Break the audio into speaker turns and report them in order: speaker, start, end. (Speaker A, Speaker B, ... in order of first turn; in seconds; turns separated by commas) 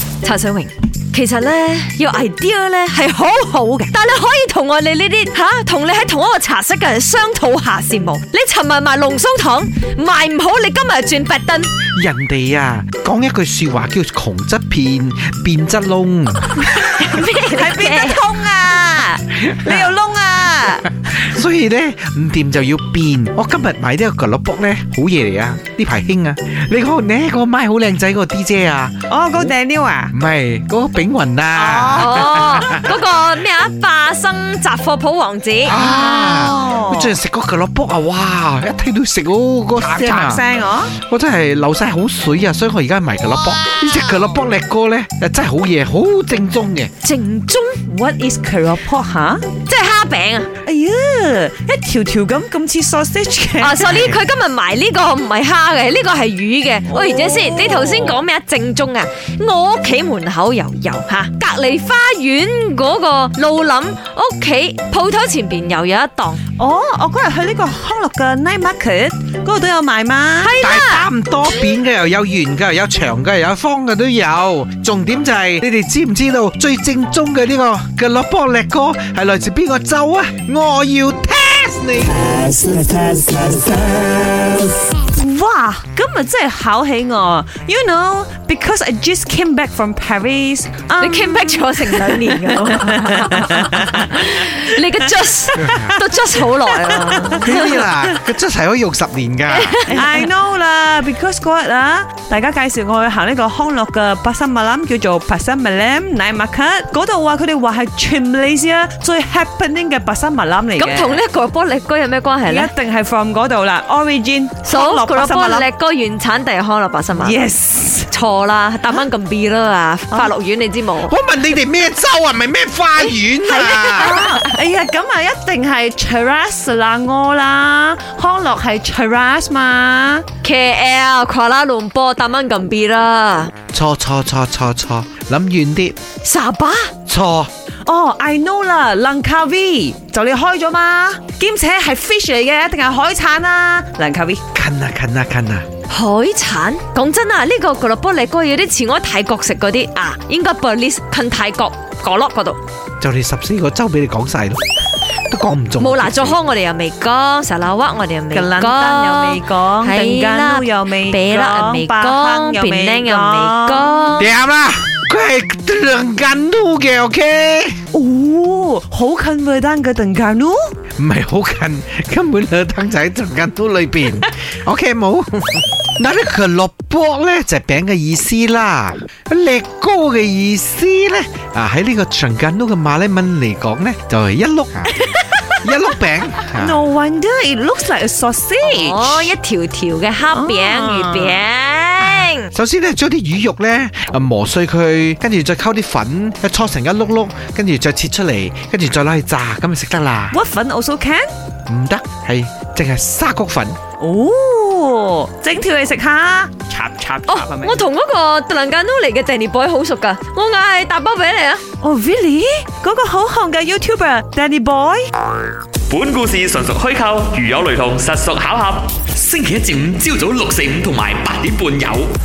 Speaker A: 0.2-11.7, Speaker B: 11.9-16.6, Speaker A: 16.8-18.2, Speaker C: 17.0-20.8, Speaker B: 19.6-19.9, Speaker B: 21.0-29.5, Speaker C: 29.1-30.1, Speaker B: 30.1-32.8, Speaker C: 31.5-32.8, Speaker A: 31.9-35.8, Speaker B: 35.6-46.9, Speaker C: 35.7-37.1, Speaker C: 39.8-40.9, Speaker A: 47.0-47.8, Speaker C: 47.9-49.5, Speaker A: 49.6-50.5, Speaker C: 50.6-53.9, Speaker A: 53.6-66.4, Speaker B: 53.9-54.2, Speaker C: 56.9-58.2, Speaker C: 66.6-70.7, Speaker A: 70.4-71.1, Speaker B: 70.6-84.1, Speaker C: 85.1-95.8, Speaker A: 91.0-97.8, Speaker B: 95.6-95.9, Speaker C: 96.9-97.8, Speaker B: 97.3-99.9, Speaker A: 99.5-100.1, Speaker C: 99.9-111.2, Speaker A: 110.8-112.7, Speaker C: 112.5-115.7, Speaker A: 114.7-117.4, Speaker C: 117.1-118.1, Speaker A: 118.1-121.1, Speaker B: 121.0-124.4, Speaker C: 123.5-130.2, Speaker A: 123.8-124.4, Speaker A: 130.4-133.5, Speaker B: 133.7-136.0, Speaker A: 136.2-136.9, Speaker B: 137.1-137.5, Speaker C: 137.8-144.4, Speaker B: 144.5-145.7, Speaker A: 145.9-152.6, Speaker B: 153.0-154.6, Speaker B: 155.3-156.4, Speaker A: 155.8-164.3, Speaker C: 158.3-163.9, Speaker B: 164.2-167.8, Speaker C: 167.9-170.7, Speaker B: 171.0-184.9, Speaker B: 185.6-186.8, Speaker C: 186.6-189.3, Speaker A: 188.6-192.5, Speaker C: 190.3-191.4, Speaker B: 192.5-200.3, Speaker C: 200.3-201.3, Speaker B: 201.7-203.8, Speaker C: 204.0-207.8, Speaker A: 207.3-211.6, Speaker C: 211.8-215.1, Speaker D: 215.9-222.1